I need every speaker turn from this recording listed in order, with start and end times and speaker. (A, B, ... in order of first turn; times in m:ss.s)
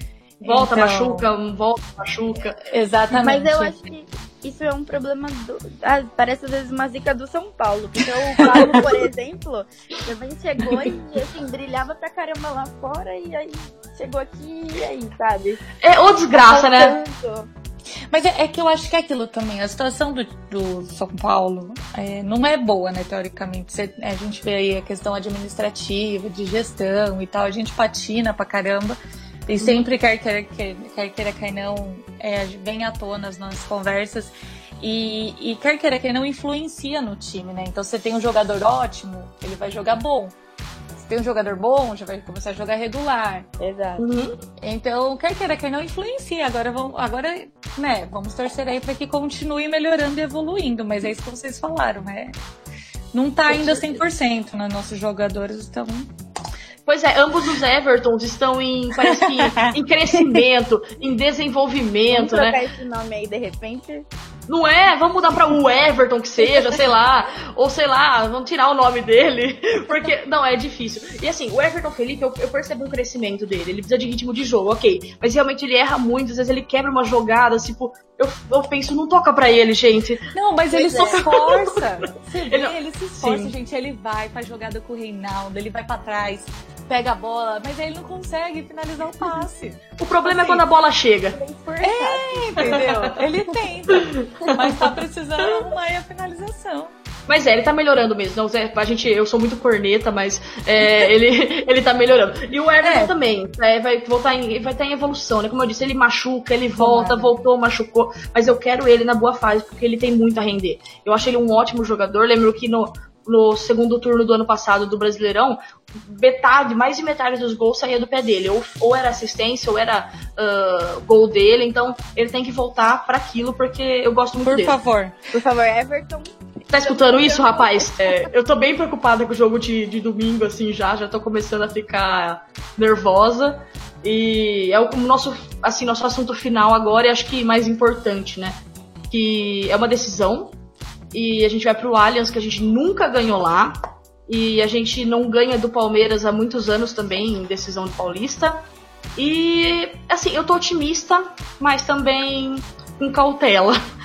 0:00.4-0:01.3 A
0:00.4-0:02.6 B
0:02.6-0:03.7 A
0:03.1-0:15.6 C
0:08.4-0:08.8 B
0:15.8-0:17.0 B
0:16.3-0:17.5 C
0:18.1-0:40.3 A
0:29.6-0:29.9 B
0:41.0-0:43.5 A
0:43.6-0:44.1 C
0:44.0-0:44.4 B
0:44.6-0:52.3 A
0:53.1-0:56.1 A
0:53.5-0:54.0 C
0:56.8-1:02.6 B
0:59.0-0:59.7 A
1:02.1-1:04.1 C
1:04.5-1:21.9 B
1:20.3-1:29.8 A
1:20.7-1:21.2 C
1:22.5-1:23.5 B
1:30.0-1:31.4 B
1:30.2-1:30.6 C
1:31.3-1:32.8 C
1:31.8-1:36.9 A
1:32.6-1:33.0 B
1:33.9-1:35.0 B
1:37.3-2:04.8 B
1:42.8-1:43.1 A
1:46.8-1:47.3 A
2:04.4-2:05.1 A
2:05.3-2:08.3 C
2:06.7-2:18.6 B
2:19.1-2:20.6 B
2:21.1-2:28.6 B
2:29.2-2:33.8 B